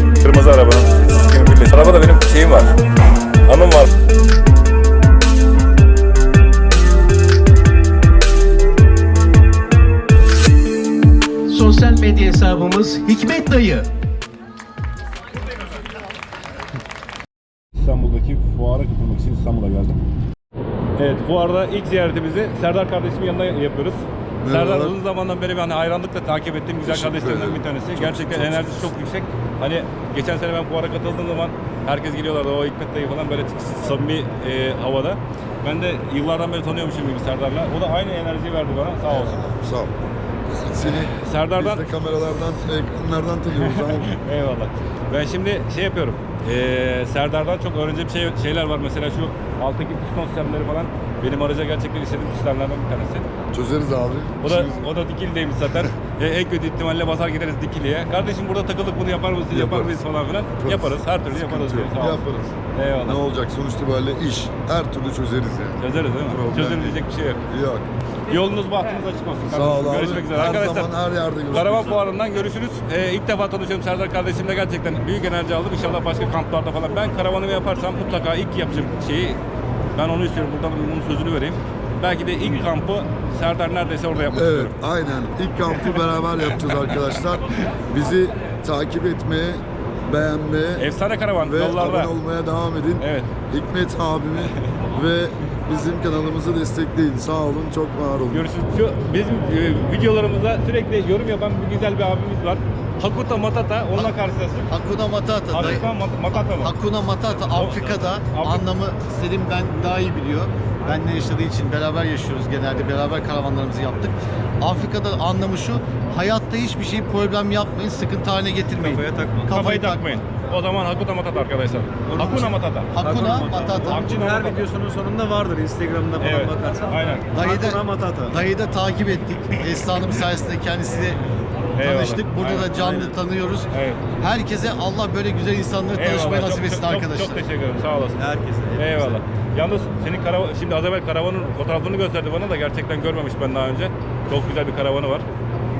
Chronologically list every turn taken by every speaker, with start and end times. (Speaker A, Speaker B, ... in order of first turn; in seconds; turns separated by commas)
Speaker A: 0.2-2.7, Speaker A: 3.5-3.9, Speaker B: 11.5-13.9, Speaker A: 17.8-20.0, Speaker A: 20.9-39.5, Speaker C: 24.4-25.0, Speaker C: 26.8-28.8, Speaker C: 39.1-40.0, Speaker C: 40.6-44.1, Speaker A: 40.9-41.9, Speaker A: 43.5-53.2, Speaker C: 53.5-54.9, Speaker A: 54.4-63.2, Speaker C: 59.5-59.9, Speaker C: 60.6-67.9, Speaker A: 65.8-67.4, Speaker A: 68.3-70.9, Speaker C: 69.5-72.0, Speaker A: 71.5-79.4, Speaker A: 80.0-84.7, Speaker C: 84.3-90.9, Speaker A: 90.8-92.1, Speaker C: 91.4-98.5, Speaker A: 93.0-93.3, Speaker A: 98.3-104.7, Speaker D: 104.7-105.8, Speaker A: 105.5-106.7, Speaker D: 106.6-120.2, Speaker A: 107.3-108.6, Speaker E: 118.8-119.5, Speaker A: 119.5-122.9, Speaker D: 122.2-124.1, Speaker E: 123.0-128.4, Speaker A: 123.5-124.7, Speaker A: 126.2-127.3, Speaker D: 127.3-131.2, Speaker A: 131.8-133.1, Speaker D: 131.8-133.7, Speaker A: 133.7-134.0, Speaker D: 134.2-137.4, Speaker A: 135.9-145.3, Speaker E: 138.2-139.2